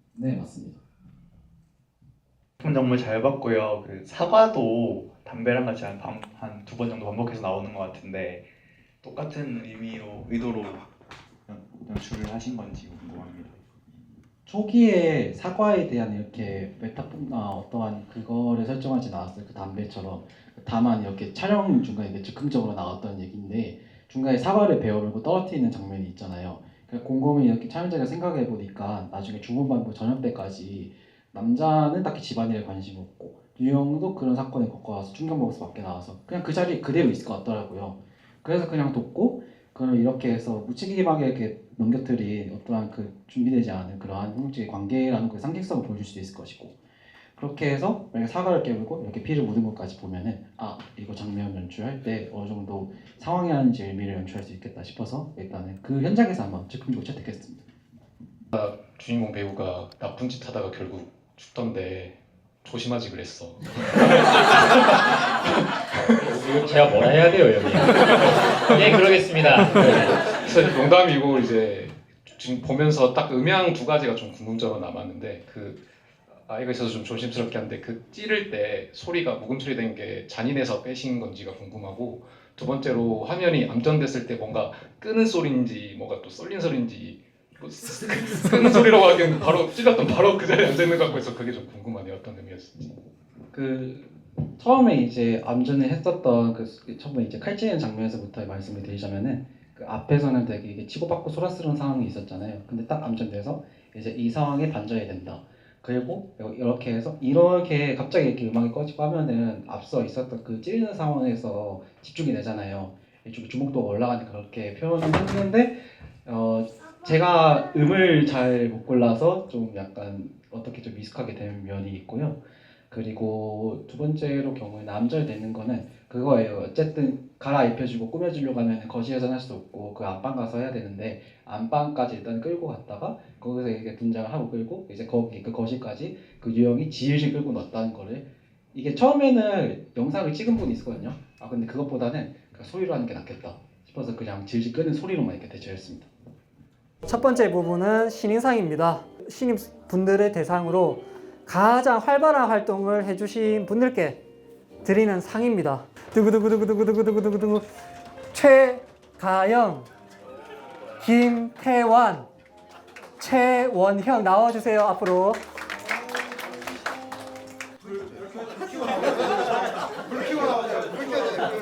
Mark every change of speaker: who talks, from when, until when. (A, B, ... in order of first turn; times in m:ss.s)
0:00.1-0:00.8 A
0:02.6-0:08.4 B
0:09.0-0:10.9 B
0:11.5-0:13.6 B
0:14.4-0:46.8 A
0:47.4-0:57.7 A
0:58.5-1:05.1 C
1:06.2-1:10.6 D
1:08.7-1:15.8 C
1:16.4-1:33.0 C
1:33.5-2:26.1 A
2:27.0-2:34.2 E
2:34.8-2:37.6 E
2:38.3-2:39.9 E
2:41.0-2:42.3 E
2:43.2-2:45.4 E